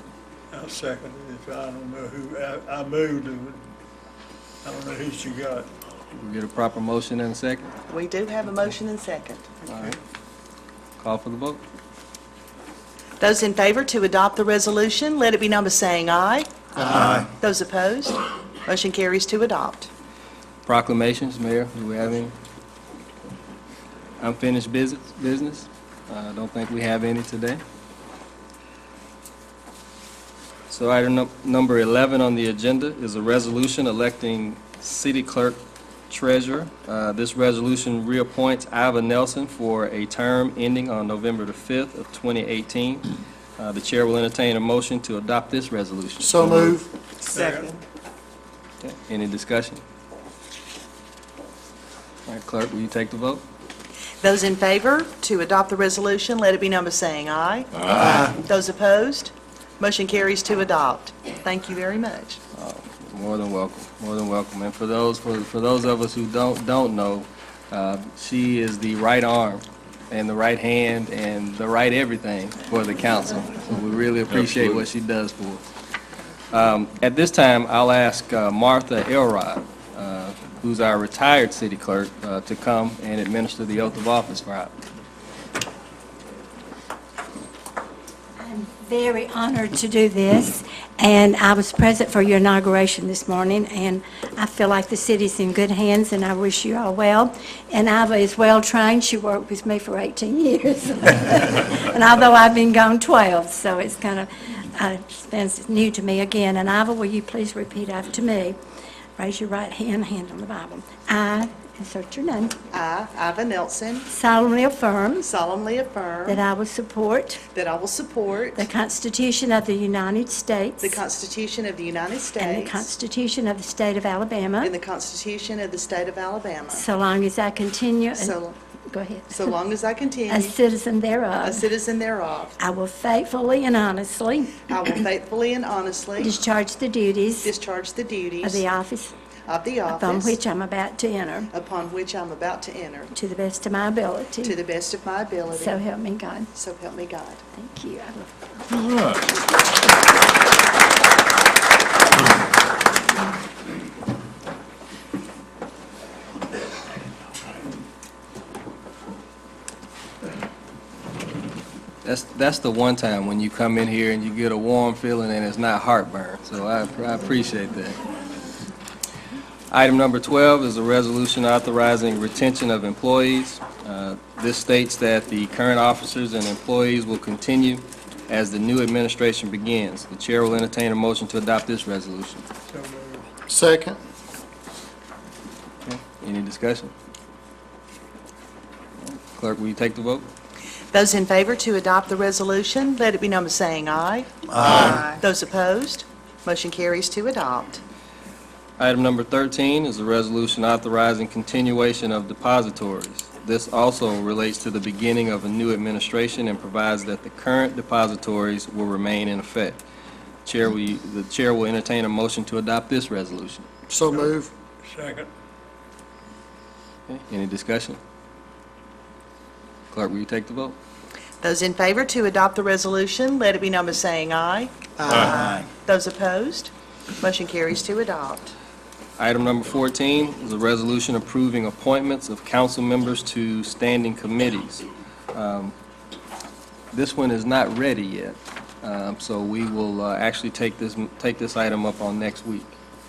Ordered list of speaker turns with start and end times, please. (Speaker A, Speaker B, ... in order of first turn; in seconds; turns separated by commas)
Speaker A: 0.5-3.6, Speaker A: 4.6-5.7, Speaker B: 6.1-7.7, Speaker C: 7.9-9.8, Speaker B: 9.7-10.0, Speaker B: 11.0-11.6, Speaker C: 13.2-19.9, Speaker B: 20.6-22.3, Speaker B: 24.2-27.6, Speaker B: 30.7-46.8, Speaker D: 46.2-46.9, Speaker C: 47.2-47.8, Speaker A: 47.3-47.7, Speaker B: 48.8-49.8, Speaker B: 52.2-53.4, Speaker C: 54.2-62.4, Speaker B: 62.5-75.6, Speaker B: 76.5-84.7, Speaker E: 88.4-108.5, Speaker E: 109.2-112.5, Speaker C: 112.7-114.1, Speaker E: 114.1-115.3, Speaker C: 115.2-116.4, Speaker E: 116.2-117.4, Speaker C: 117.5-118.7, Speaker E: 118.5-121.0, Speaker C: 120.8-122.9, Speaker E: 122.4-124.7, Speaker C: 124.6-126.8, Speaker E: 126.7-129.5, Speaker C: 128.1-128.5, Speaker C: 129.3-130.6, Speaker E: 130.3-131.7, Speaker C: 131.4-132.6, Speaker E: 132.6-134.8, Speaker C: 134.7-136.4, Speaker E: 136.2-137.5, Speaker C: 137.4-138.6, Speaker E: 138.4-139.1, Speaker C: 139.5-140.4, Speaker E: 139.8-141.5, Speaker C: 141.5-143.1, Speaker E: 143.1-144.6, Speaker C: 144.4-145.8, Speaker E: 145.5-146.5, Speaker C: 146.5-147.4, Speaker E: 147.5-149.2, Speaker B: 162.0-168.0, Speaker B: 169.7-182.4, Speaker A: 182.7-183.2, Speaker D: 183.5-184.0, Speaker B: 185.8-186.9, Speaker B: 189.3-190.3, Speaker C: 190.9-197.8, Speaker D: 194.6-194.9, Speaker B: 198.8-209.8, Speaker B: 210.4-213.7, Speaker D: 213.9-214.5, Speaker A: 214.8-215.3, Speaker B: 217.1-218.0, Speaker B: 219.9-220.8, Speaker C: 221.4-228.5, Speaker D: 225.0-225.7, Speaker B: 229.2-235.7, Speaker B: 236.9-242.8